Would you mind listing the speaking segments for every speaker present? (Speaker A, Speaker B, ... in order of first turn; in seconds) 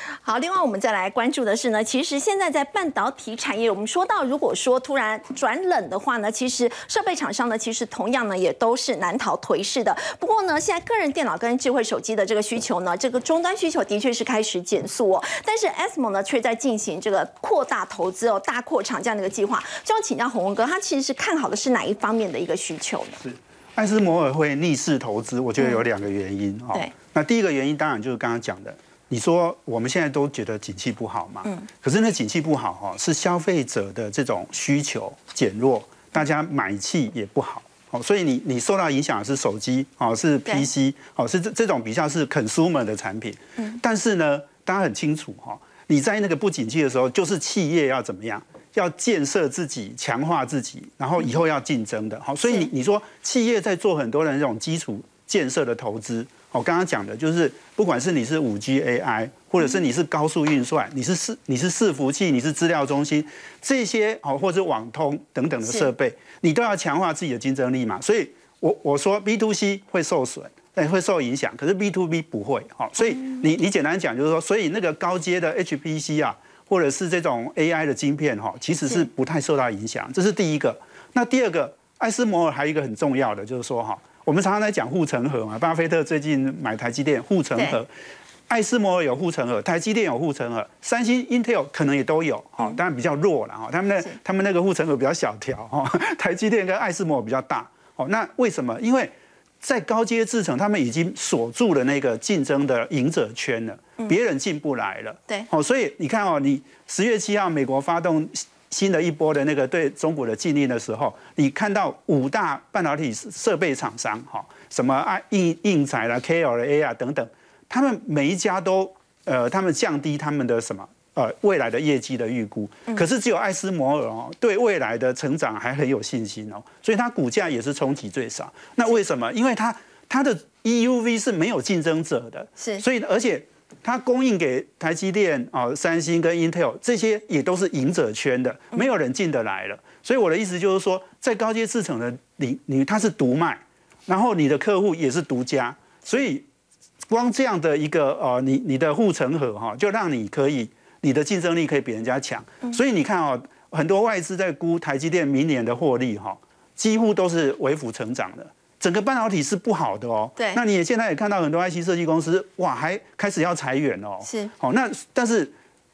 Speaker A: 0.2-23.2, 25.6-25.8, 73.0-73.4, 132.6-132.8, 164.2-164.5
Speaker B: 23.2-87.9, 88.5-146.4, 147.1-165.5